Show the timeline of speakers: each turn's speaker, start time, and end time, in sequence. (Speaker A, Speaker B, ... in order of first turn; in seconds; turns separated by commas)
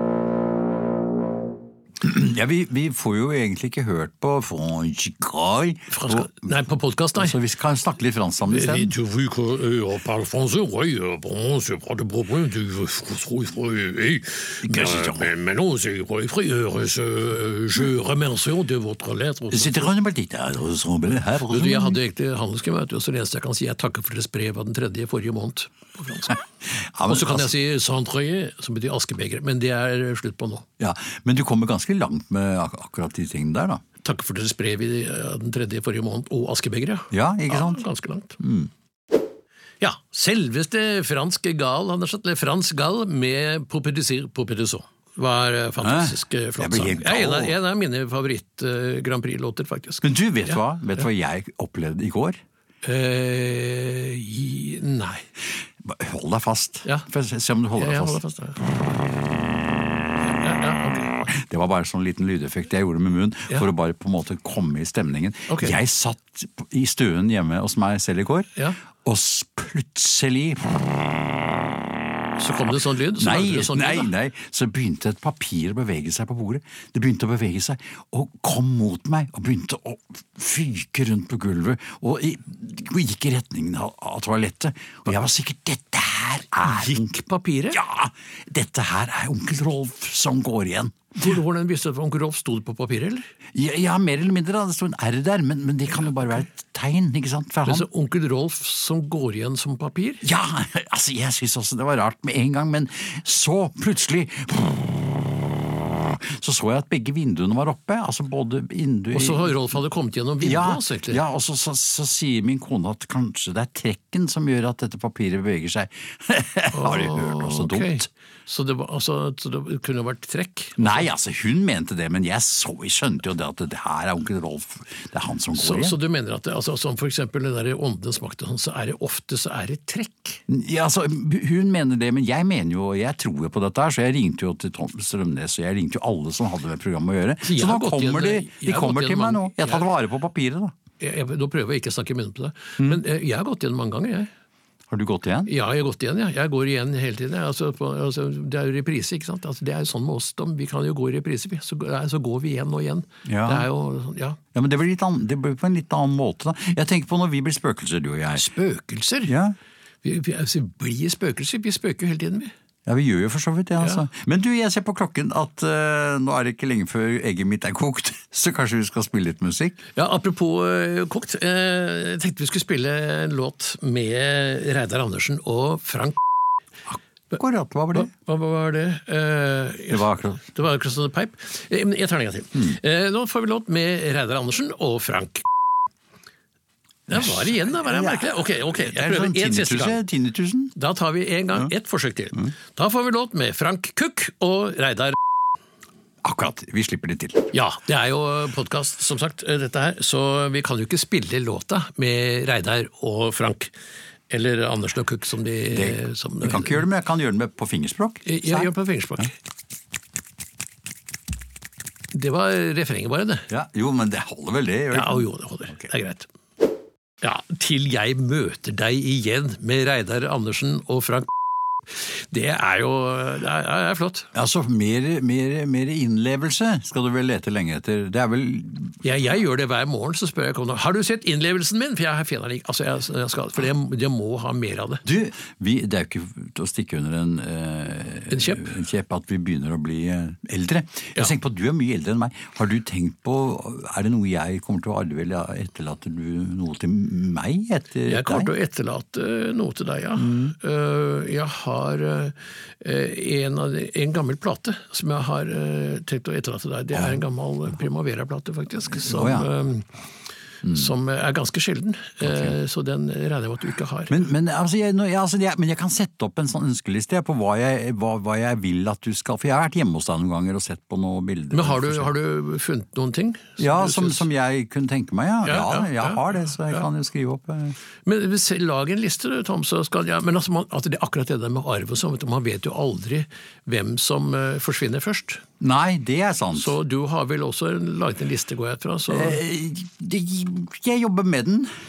Speaker A: 2.0-6.5, Speaker B: 5.9-7.3, Speaker A: 7.2-8.9, Speaker B: 8.5-19.9, Speaker A: 14.6-15.3, Speaker A: 19.5-22.0, Speaker B: 21.5-26.4, Speaker A: 26.7-27.5, Speaker B: 27.1-30.6, Speaker A: 30.8-33.8, Speaker B: 34.0-38.4, Speaker A: 37.1-37.8, Speaker A: 38.4-38.7, Speaker B: 39.8-50.6, Speaker A: 45.8-47.5, Speaker A: 50.0-52.4, Speaker B: 52.8-55.2, Speaker A: 55.8-58.2, Speaker B: 57.8-58.6, Speaker B: 60.2-61.3, Speaker A: 61.3-71.7, Speaker B: 65.5-65.8, Speaker B: 72.4-74.1, Speaker A: 73.1-87.1, Speaker B: 86.6-87.8, Speaker A: 87.7-91.1, Speaker B: 91.1-93.3, Speaker A: 93.5-97.9, Speaker B: 97.6-100.2, Speaker A: 100.2-109.6, Speaker B: 109.1-111.2, Speaker A: 110.4-118.1, Speaker B: 116.7-121.0, Speaker A: 120.8-126.0, Speaker B: 125.5-130.4, Speaker A: 130.5-140.7, Speaker B: 137.4-139.8, Speaker B: 141.0-144.3, Speaker A: 144.9-145.5, Speaker B: 145.5-154.4, Speaker A: 153.2-153.7, Speaker A: 154.5-158.5, Speaker B: 158.3-159.3, Speaker A: 159.2-159.6, Speaker B: 160.0-162.5, Speaker A: 162.8-169.8, Speaker B: 169.9-176.2, Speaker A: 176.9-178.1, Speaker B: 177.9-185.5, Speaker A: 179.9-180.4, Speaker B: 187.1-190.0, Speaker A: 187.1-190.7, Speaker B: 190.7-195.2, Speaker A: 196.2-197.5, Speaker B: 197.5-203.7, Speaker B: 204.3-206.8, Speaker A: 205.7-208.7, Speaker B: 208.2-209.3, Speaker B: 212.1-213.5, Speaker A: 213.5-215.8, Speaker B: 214.9-216.2, Speaker B: 217.2-221.3, Speaker B: 221.9-224.3, Speaker A: 224.3-229.0, Speaker B: 229.0-235.0, Speaker A: 235.0-248.5, Speaker B: 238.3-238.7, Speaker B: 248.1-259.9, Speaker A: 250.2-250.5, Speaker A: 256.9-257.2, Speaker A: 258.9-259.5, Speaker A: 260.6-260.9, Speaker B: 260.7-264.2, Speaker A: 262.2-262.5, Speaker A: 264.1-272.1, Speaker B: 271.5-274.2, Speaker A: 273.6-277.8, Speaker B: 275.4-276.9, Speaker B: 278.1-285.4, Speaker A: 285.6-286.8, Speaker B: 286.5-289.4, Speaker A: 289.1-291.7